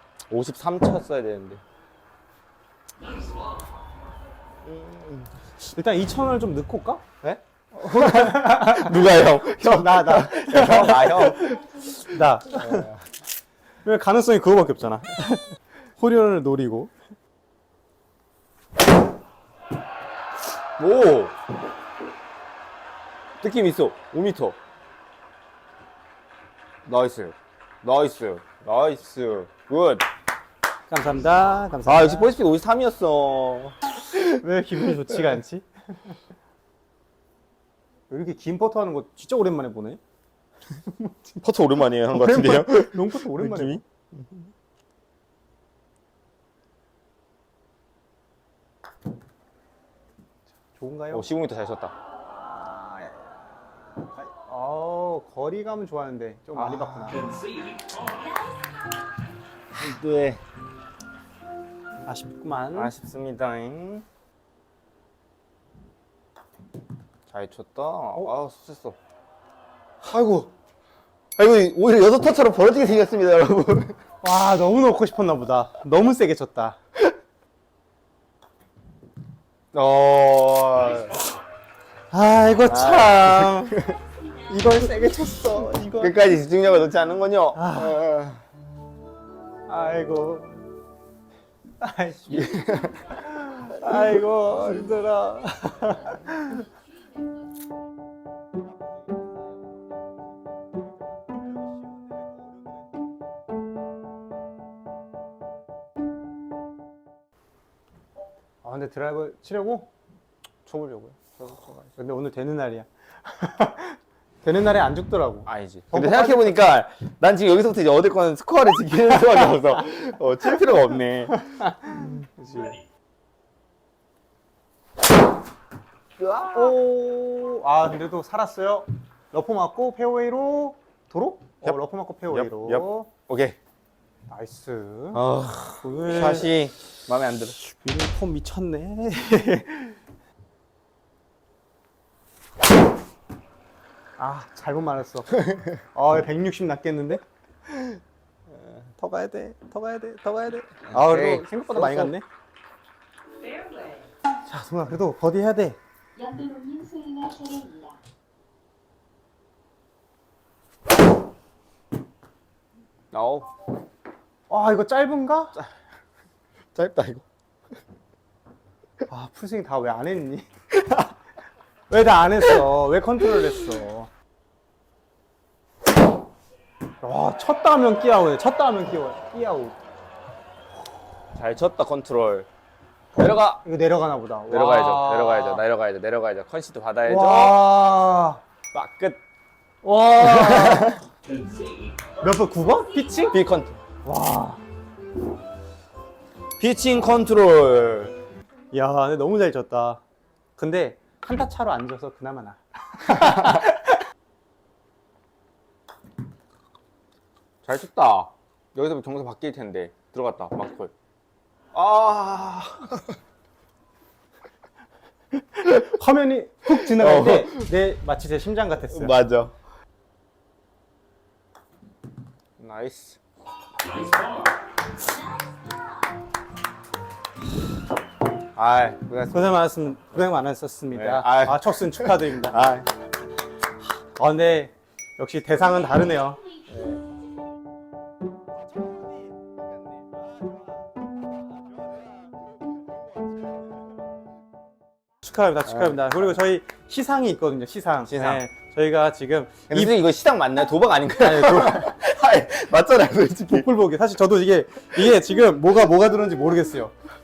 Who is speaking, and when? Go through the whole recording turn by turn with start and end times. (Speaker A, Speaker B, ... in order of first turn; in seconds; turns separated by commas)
Speaker A: 0.3-1.6, Speaker A: 4.6-5.3, Speaker B: 5.7-7.0, Speaker A: 7.2-11.6, Speaker B: 7.8-12.9, Speaker A: 12.5-13.0, Speaker B: 13.8-16.9, Speaker A: 20.8-21.4, Speaker A: 23.4-24.6, Speaker A: 26.8-30.1, Speaker B: 30.9-32.3, Speaker A: 31.9-33.8, Speaker B: 34.1-35.7, Speaker B: 38.1-40.0, Speaker B: 40.9-41.1, Speaker A: 41.4-44.5, Speaker B: 42.1-43.8, Speaker B: 50.8-51.3, Speaker A: 51.1-51.9, Speaker B: 52.4-53.5, Speaker B: 54.2-57.3, Speaker A: 56.5-57.3, Speaker C: 57.9-58.7, Speaker A: 59.7-60.4, Speaker B: 62.0-62.9, Speaker A: 62.7-64.0, Speaker A: 67.3-69.0, Speaker A: 70.0-70.5, Speaker A: 71.4-74.0, Speaker B: 74.2-76.8, Speaker A: 79.7-81.2, Speaker B: 82.1-83.8, Speaker A: 82.6-84.0, Speaker B: 84.5-86.1, Speaker A: 84.5-88.4, Speaker B: 87.5-88.0, Speaker B: 89.7-90.6, Speaker B: 91.8-92.5, Speaker A: 92.3-93.2, Speaker B: 93.4-96.7, Speaker B: 108.6-109.9, Speaker A: 110.7-111.8, Speaker B: 111.8-116.7, Speaker A: 115.5-121.5, Speaker B: 121.3-122.8, Speaker A: 126.2-126.8, Speaker B: 126.5-133.1, Speaker A: 131.6-133.6, Speaker B: 134.3-135.2, Speaker A: 135.1-137.6, Speaker B: 135.8-136.5, Speaker B: 137.8-140.0, Speaker B: 144.2-147.2, Speaker B: 149.0-152.2, Speaker A: 150.9-152.1, Speaker C: 153.4-154.1, Speaker B: 154.4-155.8, Speaker C: 156.2-158.0, Speaker A: 163.1-163.5, Speaker B: 164.5-165.6, Speaker A: 166.7-167.2, Speaker B: 169.1-170.5, Speaker B: 171.9-174.1, Speaker B: 177.0-179.8, Speaker A: 181.3-182.5, Speaker A: 183.2-183.6, Speaker B: 183.6-185.6, Speaker A: 184.5-187.6, Speaker B: 187.1-188.4, Speaker A: 188.7-189.2, Speaker B: 189.8-191.0, Speaker A: 190.2-191.0, Speaker B: 192.2-193.3, Speaker A: 193.3-193.8, Speaker B: 194.0-194.6, Speaker A: 196.6-198.1, Speaker B: 198.7-200.0, Speaker B: 200.6-204.0, Speaker A: 207.6-210.9, Speaker A: 211.7-213.1, Speaker B: 215.6-219.2, Speaker A: 216.9-217.7, Speaker A: 218.9-219.6, Speaker A: 222.6-223.2, Speaker C: 225.1-226.0, Speaker A: 228.5-229.6, Speaker B: 229.3-232.6, Speaker A: 230.9-232.9, Speaker B: 234.2-236.4, Speaker A: 236.7-237.0, Speaker B: 245.2-250.0, Speaker A: 248.1-248.4, Speaker A: 249.7-253.7, Speaker B: 251.2-251.9, Speaker B: 253.5-256.9